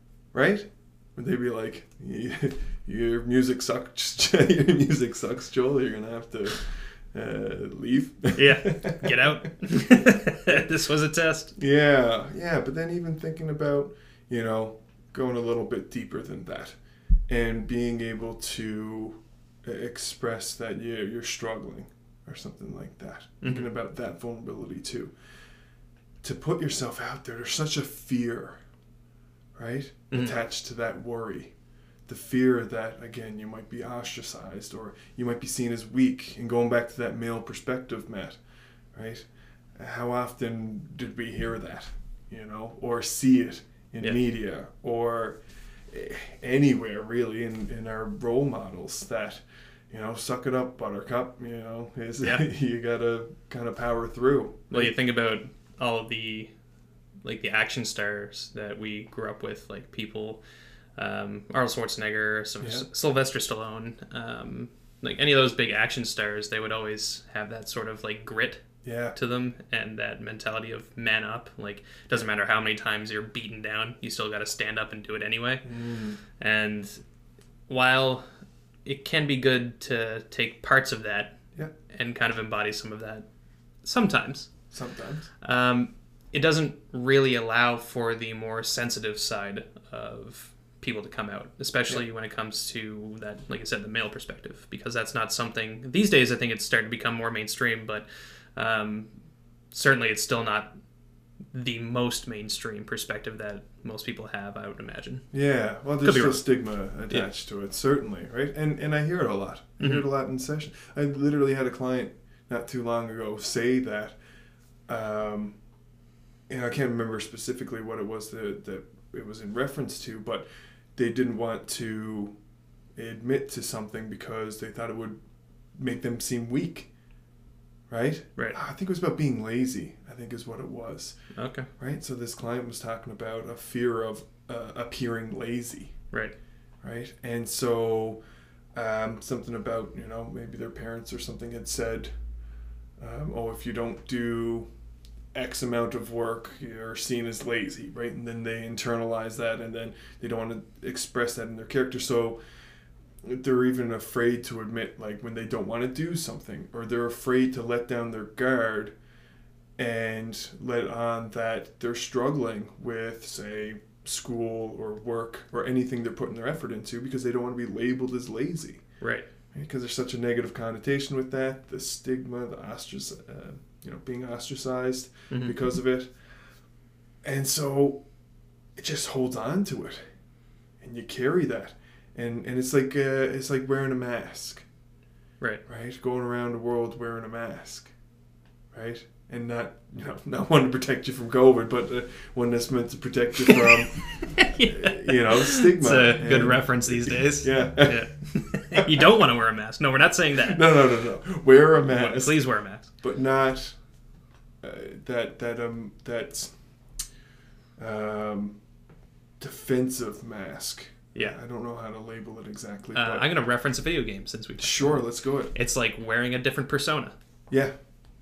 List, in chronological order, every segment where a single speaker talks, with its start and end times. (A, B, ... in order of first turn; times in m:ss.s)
0:00.3-0:10.6 A
0:08.4-0:11.6 B
0:11.6-0:16.8 A
0:17.3-0:25.1 A
0:23.4-0:23.7 B
0:26.2-0:28.6 A
0:29.6-0:31.5 A
0:32.1-0:38.4 A
0:38.9-0:54.9 A
0:54.7-0:56.5 B
0:57.2-1:00.4 B
1:01.0-1:15.7 B
1:02.6-1:02.9 A
1:08.8-1:09.2 A
1:15.6-1:16.2 A
1:16.4-1:17.0 B
1:17.7-1:18.2 B
1:18.8-1:23.3 B
1:23.8-1:24.5 B
1:24.7-1:25.3 A
1:25.4-1:39.1 B
1:39.7-1:40.7 B
1:41.5-1:45.2 B
1:45.3-1:54.2 A
1:46.0-1:46.4 B
1:49.8-1:50.0 B
1:54.9-1:55.6 A
1:56.5-2:02.3 A
2:03.0-2:05.2 A
2:05.8-2:06.9 A
2:07.9-2:11.2 A
2:11.3-2:11.7 B
2:11.8-2:15.9 A
2:16.8-2:18.2 A
2:18.8-2:22.1 A
2:23.0-2:24.7 A
2:25.3-2:32.4 A
2:33.2-2:39.0 A
2:39.8-2:48.8 A
2:49.0-2:49.3 B
2:49.5-2:56.1 A
2:57.2-2:58.0 A
2:58.8-3:00.0 A
3:00.8-3:04.7 A
3:05.7-3:07.9 A
3:08.7-3:18.1 A
3:13.5-3:20.7 B
3:20.4-3:22.4 A
3:21.8-3:22.9 B
3:23.0-3:23.8 A
3:24.6-3:26.5 A
3:27.8-3:28.6 A
3:29.4-3:33.3 A
3:33.0-3:35.0 B
3:34.6-3:35.5 A
3:35.5-3:37.2 B